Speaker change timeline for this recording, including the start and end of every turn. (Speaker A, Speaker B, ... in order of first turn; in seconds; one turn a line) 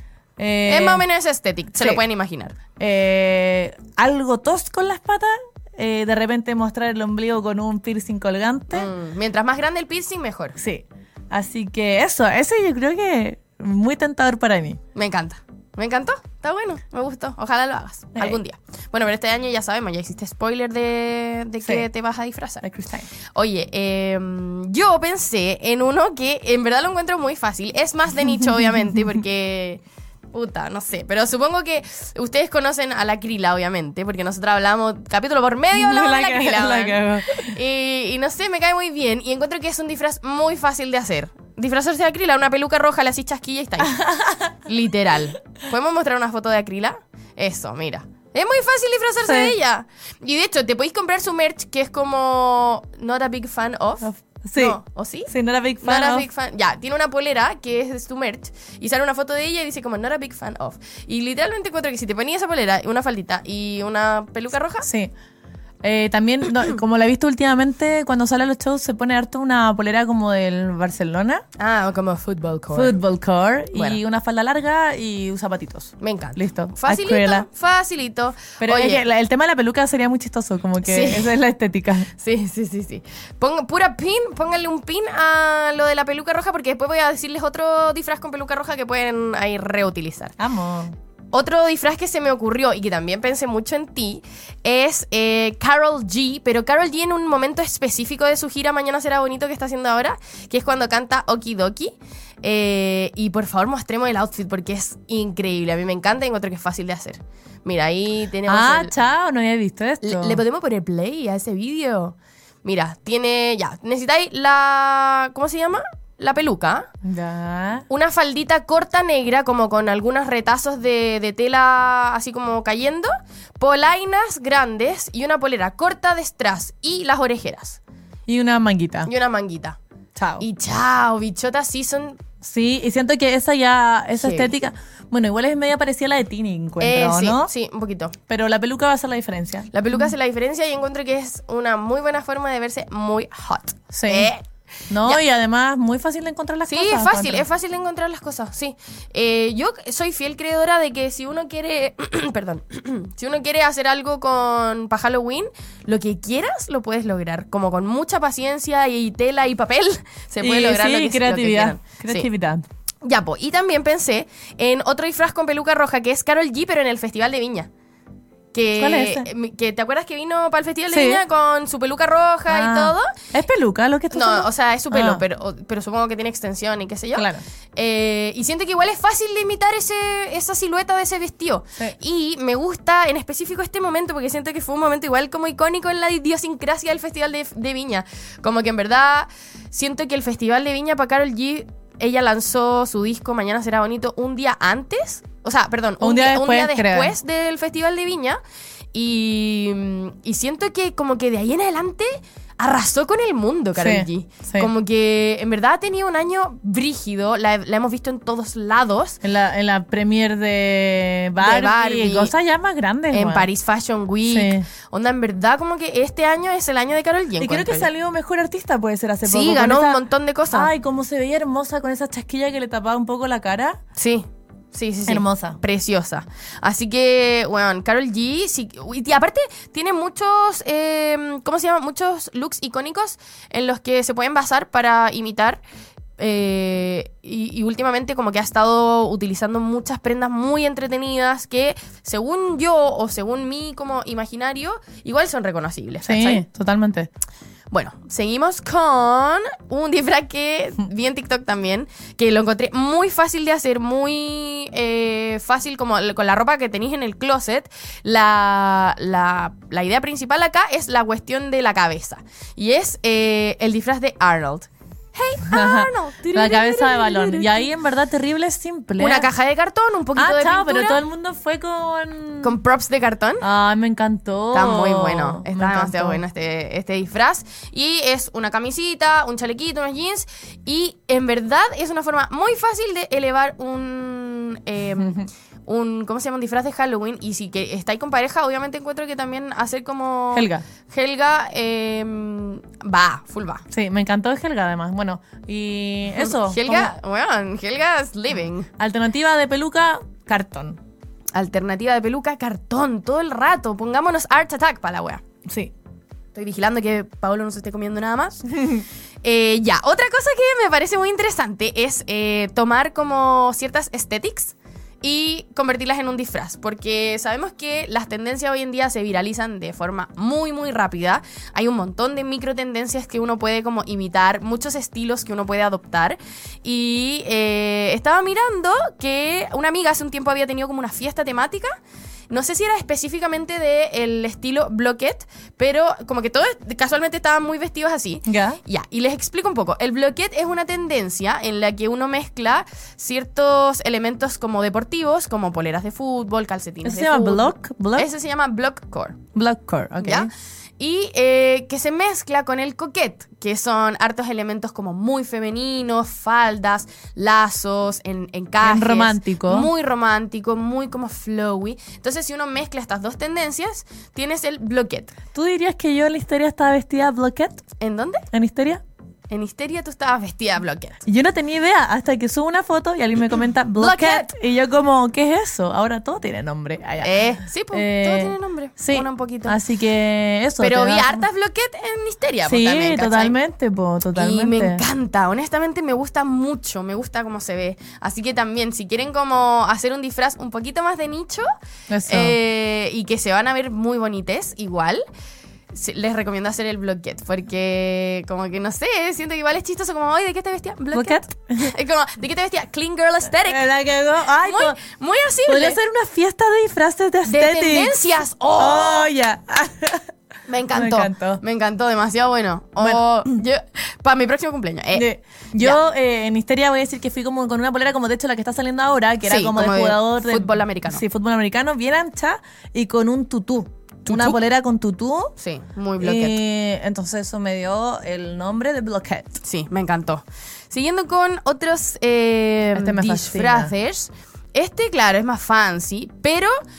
Speaker A: 0.4-1.1
Speaker B: 0.7-2.6
Speaker A: 2.8-8.9
Speaker B: 8.7-10.6
Speaker A: 10.6-14.8
Speaker B: 14.9-22.6
Speaker A: 18.1-18.4
Speaker A: 22.6-23.1
Speaker B: 23.3-29.8
Speaker B: 30.3-44.0
Speaker A: 35.7-37.5
Speaker A: 43.9-44.5
Speaker B: 44.6-64.9
Speaker A: 49.2-49.5
Speaker A: 54.0-56.3
Speaker A: 64.8-65.1
Speaker A: 65.8-71.4
Speaker B: 71.6-73.0
Speaker A: 72.7-77.5
Speaker B: 73.7-74.0
Speaker B: 76.0-79.0
Speaker A: 78.6-82.1
Speaker B: 80.8-81.3
Speaker B: 82.1-90.3
Speaker A: 90.4-90.9
Speaker B: 91.3-108.9
Speaker A: 108.5-110.4
Speaker B: 110.0-116.9
Speaker A: 117.0-117.8
Speaker B: 117.9-127.8
Speaker A: 128.3-129.1
Speaker B: 129.1-129.8
Speaker A: 130.2-130.4
Speaker B: 130.4-132.2
Speaker A: 132.4-137.5
Speaker B: 134.2-134.5
Speaker B: 136.8-138.2
Speaker A: 138.3-140.1
Speaker B: 139.7-144.4
Speaker A: 143.9-144.3
Speaker A: 144.9-147.4
Speaker B: 146.7-162.3
Speaker A: 160.4-162.7
Speaker B: 163.0-167.7
Speaker B: 168.5-173.1
Speaker A: 168.8-169.3
Speaker A: 170.9-171.2
Speaker A: 172.5-175.2
Speaker B: 174.1-198.4
Speaker A: 177.1-177.4
Speaker A: 196.0-197.1
Speaker B: 198.9-209.2
Speaker A: 203.8-204.7
Speaker A: 209.2-213.5
Speaker B: 211.4-212.3
Speaker B: 213.1-217.9
Speaker A: 214.2-214.7
Speaker A: 217.4-223.8
Speaker B: 219.2-220.7
Speaker B: 223.9-235.6
Speaker A: 225.1-225.6
Speaker B: 236.2-246.4
Speaker A: 246.0-247.1
Speaker B: 247.7-267.7
Speaker A: 265.5-269.3
Speaker B: 269.0-271.0
Speaker A: 270.1-272.5
Speaker B: 272.4-273.4
Speaker A: 273.4-276.2
Speaker B: 274.5-293.6
Speaker A: 285.0-285.2
Speaker A: 290.3-290.6
Speaker A: 293.7-296.9
Speaker B: 296.1-298.7
Speaker A: 298.8-300.8
Speaker B: 301.3-305.2
Speaker A: 305.4-305.7
Speaker B: 306.3-331.8
Speaker A: 308.5-308.8
Speaker B: 332.3-349.2
Speaker A: 338.3-338.6
Speaker A: 346.8-348.1
Speaker A: 349.3-350.3
Speaker B: 350.0-365.1
Speaker A: 358.6-359.7
Speaker A: 365.3-367.6
Speaker B: 367.8-368.2
Speaker A: 368.3-368.8
Speaker B: 369.3-371.0
Speaker A: 371.1-381.2
Speaker B: 373.8-374.3
Speaker B: 377.0-379.6
Speaker B: 380.6-383.4
Speaker A: 382.4-384.8
Speaker B: 384.1-391.5
Speaker A: 391.9-392.4
Speaker B: 392.1-395.0
Speaker B: 395.7-403.6
Speaker A: 400.9-401.7
Speaker A: 403.4-404.8
Speaker B: 404.4-405.8
Speaker A: 405.5-408.0
Speaker B: 407.2-409.1
Speaker A: 408.6-410.1
Speaker B: 410.5-415.8
Speaker A: 410.7-411.4
Speaker A: 412.8-413.4
Speaker A: 414.9-425.3
Speaker B: 419.2-421.0
Speaker B: 424.1-424.4
Speaker B: 425.4-426.4
Speaker A: 426.0-429.3
Speaker B: 429.4-436.5
Speaker A: 432.7-433.7